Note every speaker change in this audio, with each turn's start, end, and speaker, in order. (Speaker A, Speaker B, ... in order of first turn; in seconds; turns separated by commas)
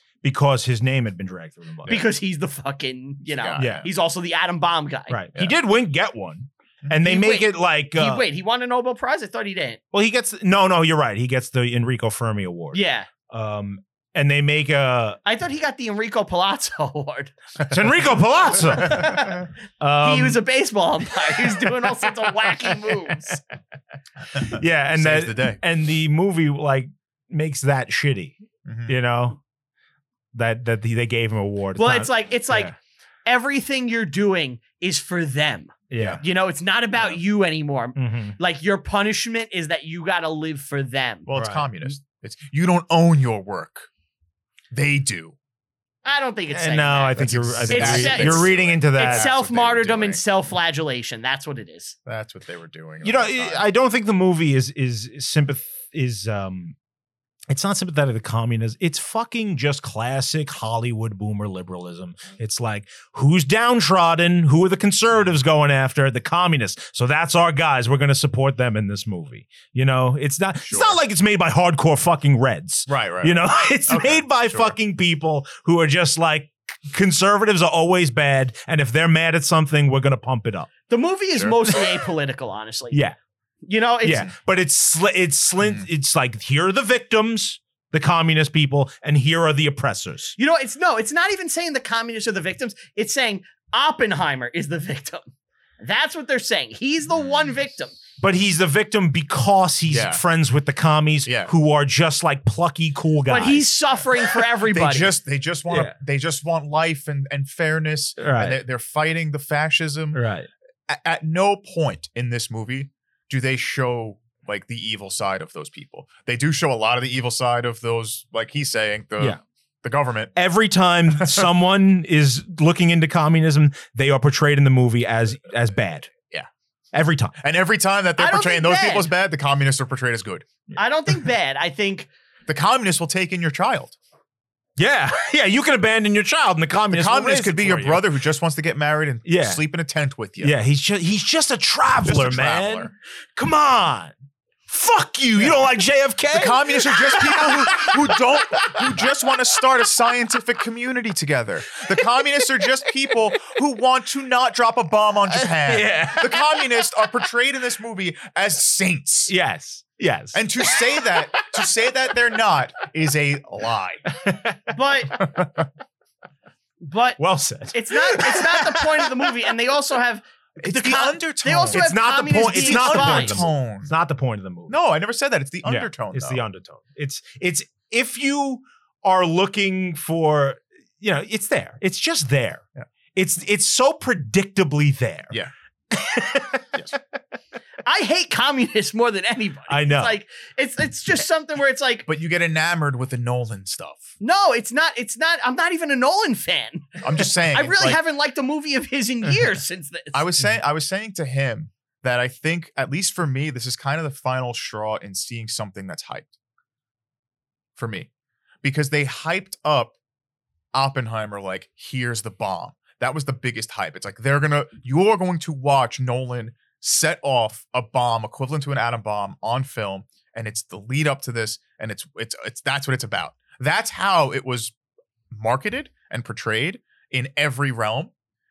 Speaker A: 0.2-2.0, Speaker B: 1.8-2.1, Speaker C: 1.9-5.2, Speaker B: 3.3-3.9, Speaker A: 3.6-3.9, Speaker A: 5.1-8.2, Speaker C: 7.0-9.8, Speaker A: 9.9-15.2, Speaker C: 12.7-13.1, Speaker C: 15.2-17.3, Speaker A: 17.7-20.4, Speaker C: 18.6-19.4, Speaker C: 20.0-23.4, Speaker A: 21.3-23.1, Speaker B: 24.3-25.6, Speaker A: 24.3-29.4, Speaker B: 28.6-29.0, Speaker A: 30.3-32.7, Speaker C: 31.8-32.7, Speaker C: 33.2-41.3, Speaker A: 35.9-36.2, Speaker A: 38.0-38.4, Speaker B: 41.3-43.9, Speaker A: 41.3-41.6, Speaker B: 44.7-45.4, Speaker C: 46.0-52.0, Speaker A: 46.5-49.3, Speaker B: 47.1-50.2, Speaker B: 52.0-53.6, Speaker A: 53.0-56.8, Speaker A: 57.5-80.7, Speaker B: 70.6-71.0, Speaker B: 72.9-74.7, Speaker C: 80.9-83.0, Speaker A: 81.6-82.0, Speaker A: 82.9-83.2, Speaker C: 83.6-84.3, Speaker A: 84.0-90.3, Speaker C: 90.4-95.3, Speaker C: 95.8-98.0, Speaker A: 98.2-104.2, Speaker B: 99.9-100.2, Speaker B: 101.2-101.5, Speaker C: 103.3-105.1, Speaker B: 104.7-110.2, Speaker A: 105.7-105.9, Speaker A: 108.2-108.6, Speaker A: 110.1-110.5, Speaker B: 110.9-120.3, Speaker A: 120.3-126.1, Speaker B: 121.2-121.5, Speaker A: 126.9-127.3, Speaker B: 127.4-130.4, Speaker C: 128.2-129.1, Speaker C: 130.8-132.1, Speaker B: 132.5-134.0, Speaker A: 134.8-138.0, Speaker B: 136.9-140.6, Speaker A: 139.2-139.6, Speaker A: 140.4-144.1, Speaker B: 142.0-142.9, Speaker A: 144.7-149.1, Speaker B: 146.3-159.3, Speaker A: 155.3-156.6, Speaker A: 159.3-161.7, Speaker B: 160.3-164.1, Speaker A: 164.1-164.7, Speaker C: 164.7-165.2, Speaker B: 165.1-165.7, Speaker C: 166.8-173.4, Speaker A: 167.2-169.3, Speaker B: 170.6-173.9, Speaker A: 171.7-174.8, Speaker B: 174.7-176.4, Speaker A: 175.6-182.6, Speaker A: 183.1-185.3, Speaker A: 185.9-187.0, Speaker C: 187.8-192.0, Speaker A: 189.7-190.1, Speaker B: 192.1-194.1, Speaker C: 194.2-200.2, Speaker B: 197.0-198.0, Speaker B: 200.1-206.3, Speaker B: 207.8-208.1, Speaker B: 208.6-209.9, Speaker B: 210.7-224.7, Speaker B: 225.3-228.1